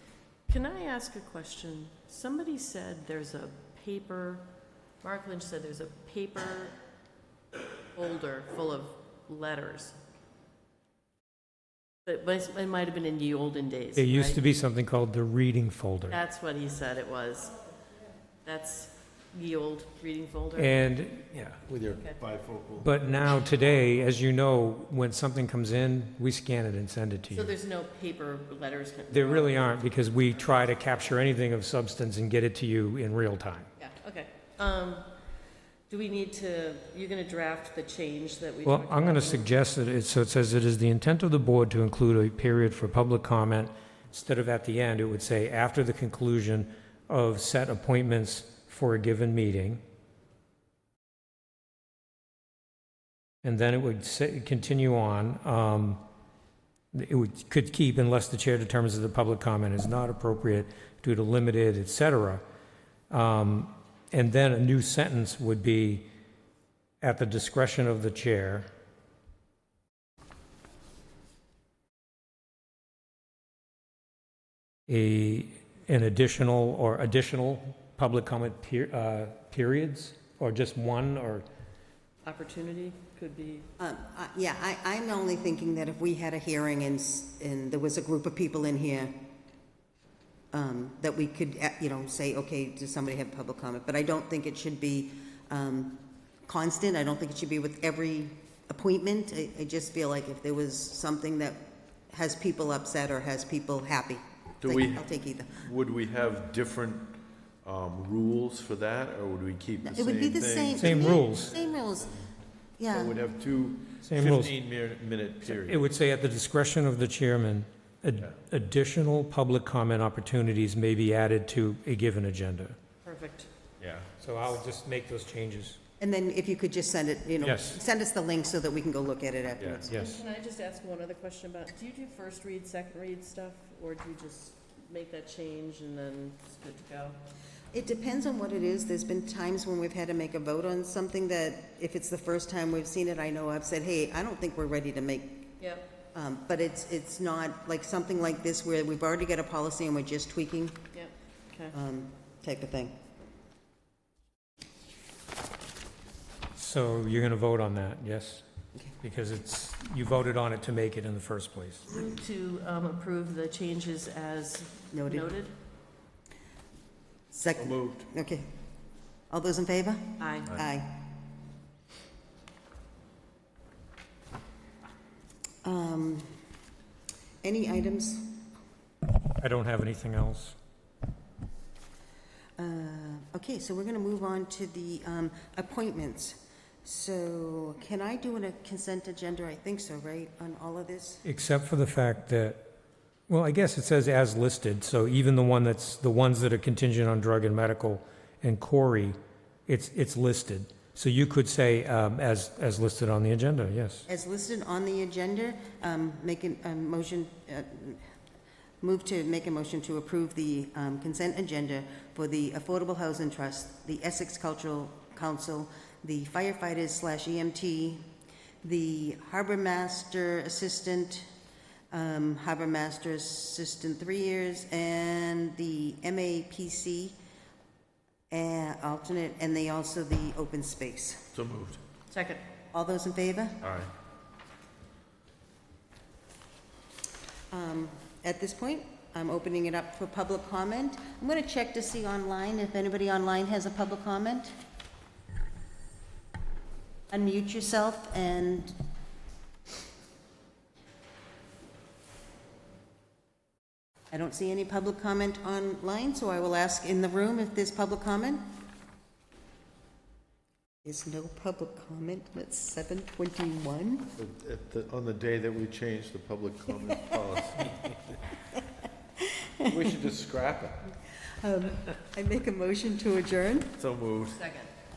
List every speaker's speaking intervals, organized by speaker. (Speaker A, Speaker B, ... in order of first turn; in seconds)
Speaker A: 0.5-4.4, 5.0-6.7, 7.9-10.0, 12.1-14.4, 16.1-17.5, 18.4-20.8, 27.3-29.7, 33.8-35.1, 35.9-39.5, 82.2-83.7, 123.0-123.5, 129.9-137.2, 145.6-145.8, 150.9-151.7, 161.9-165.5, 170.2-170.5, 232.1-232.4, 274.3-274.7
Speaker B: 13.9-16.2, 20.6-21.3, 22.8-27.5, 29.1-33.7, 38.6-49.8, 53.4-56.0, 56.9-62.4, 63.1-66.0, 67.0-68.7, 74.9-81.5, 110.7-111.5, 114.0-114.5, 115.4-122.8, 124.2-125.8, 127.4-127.8, 129.9-130.2, 156.5-158.4, 159.0-161.8, 179.4-180.6, 191.2-192.6, 193.3-199.2, 199.7-204.0
Speaker C: 21.3-22.9, 104.6-111.2, 112.9-115.8, 123.8-124.1, 129.6-129.9, 167.6-168.1, 231.3-231.8, 233.6-233.9, 264.1-268.2, 269.7-270.9, 273.8-274.4
Speaker D: 83.8-89.1, 90.5-105.6, 109.8-112.2, 112.8-113.2, 126.0-129.9, 137.7-145.5, 146.1-150.8, 151.7-152.9, 164.9-165.3, 167.3-168.5, 169.3-171.1, 175.6-176.3, 177.4-178.4, 182.6-191.2, 204.1-208.0, 208.8-218.0, 218.6-221.3, 221.9-227.2, 228.3-231.3, 232.7-233.7, 237.5-244.5, 247.1-248.8, 254.1-258.4, 260.8-264.1, 266.9-267.1, 269.2-270.0, 271.1-273.7